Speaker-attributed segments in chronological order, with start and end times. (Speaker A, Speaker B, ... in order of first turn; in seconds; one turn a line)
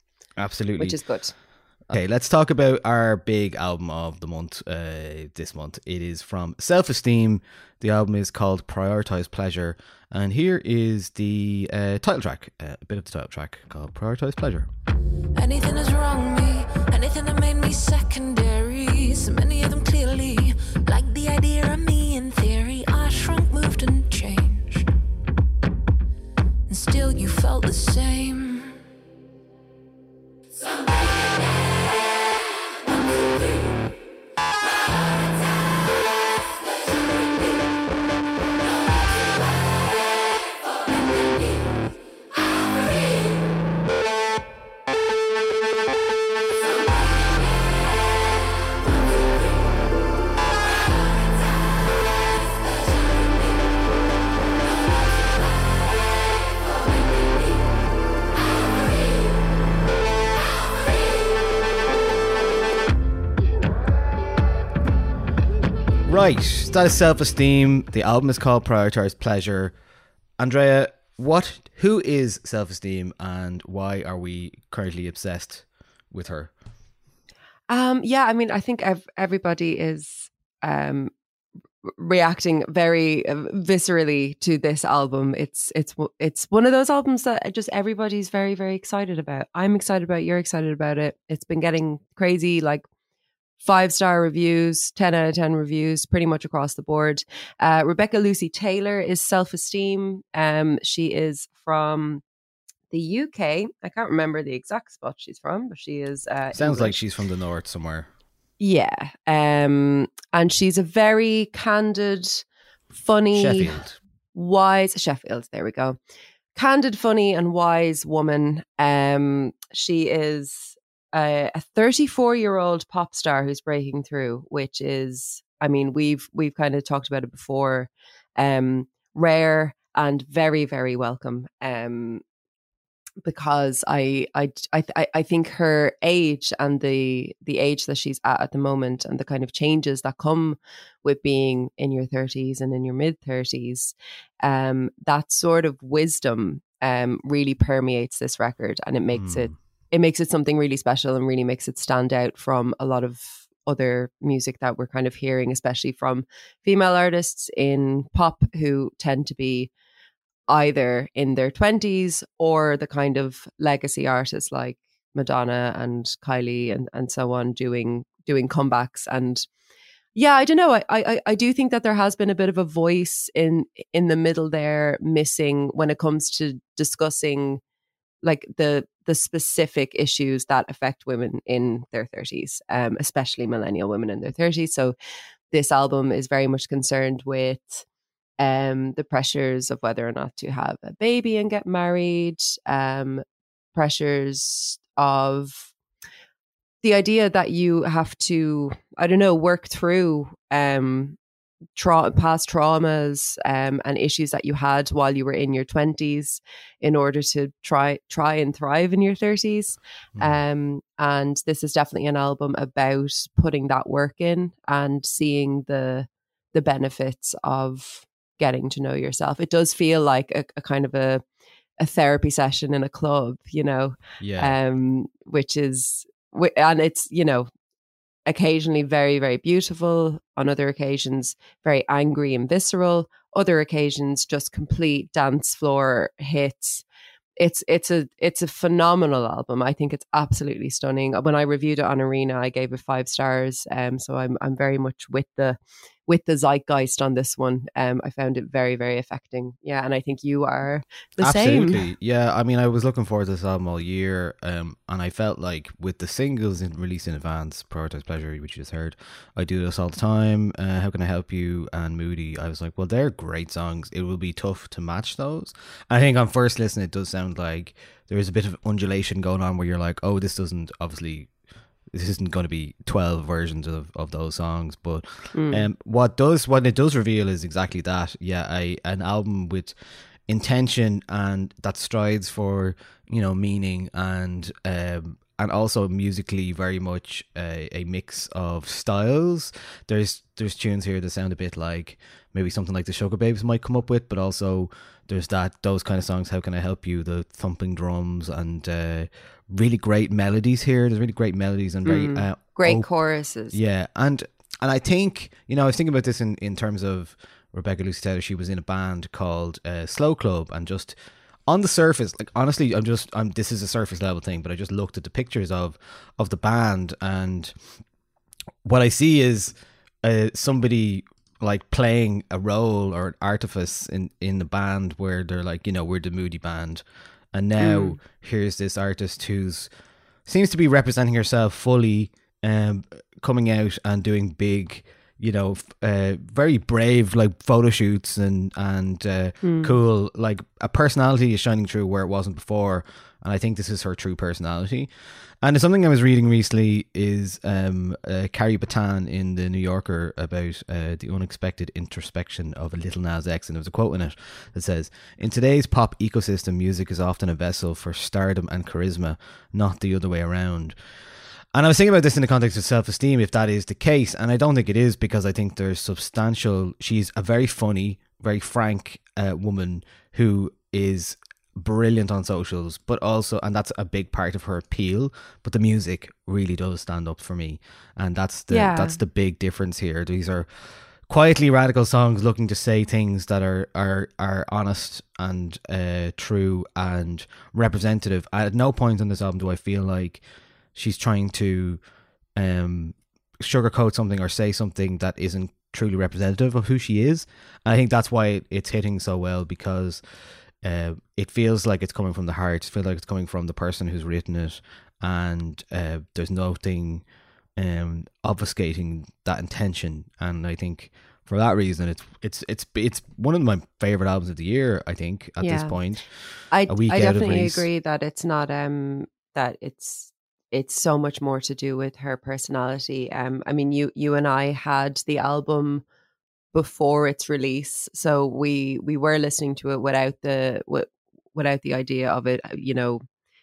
Speaker A: 0.4-1.0
Speaker B: 0.8-1.4
Speaker A: 1.9-14.7
Speaker C: 15.3-24.9
Speaker C: 26.7-28.8
Speaker A: 66.1-69.8
Speaker A: 70.4-76.5
Speaker B: 77.7-81.1
Speaker B: 81.8-92.8
Speaker B: 93.6-102.2
Speaker B: 102.9-107.0
Speaker A: 106.5-108.1
Speaker B: 108.6-113.8
Speaker A: 113.3-114.0
Speaker B: 114.3-116.0
Speaker B: 116.5-132.2
Speaker B: 133.2-159.7
Speaker A: 149.1-149.6
Speaker B: 160.5-169.5
Speaker B: 170.2-177.6
Speaker B: 178.2-184.9
Speaker B: 185.5-187.8
Speaker B: 188.4-193.2
Speaker B: 193.8-195.7
Speaker B: 196.8-201.2
Speaker B: 201.8-221.2
Speaker A: 210.2-210.4
Speaker B: 221.8-227.5
Speaker A: 224.2-224.6
Speaker B: 228.3-236.8
Speaker B: 237.4-251.8
Speaker A: 251.2-271.3
Speaker A: 271.9-279.8
Speaker B: 275.3-275.7
Speaker A: 280.3-302.9
Speaker B: 301.9-303.6
Speaker A: 303.5-317.6
Speaker A: 318.6-329.7
Speaker B: 327.6-328.0
Speaker A: 330.2-360.8
Speaker B: 339.4-339.8
Speaker A: 361.5-390.2
Speaker B: 378.5-379.0
Speaker A: 390.8-391.8
Speaker A: 392.4-400.0
Speaker A: 400.6-407.1
Speaker A: 407.6-417.7
Speaker B: 415.4-415.8
Speaker B: 416.5-425.8
Speaker B: 426.5-433.0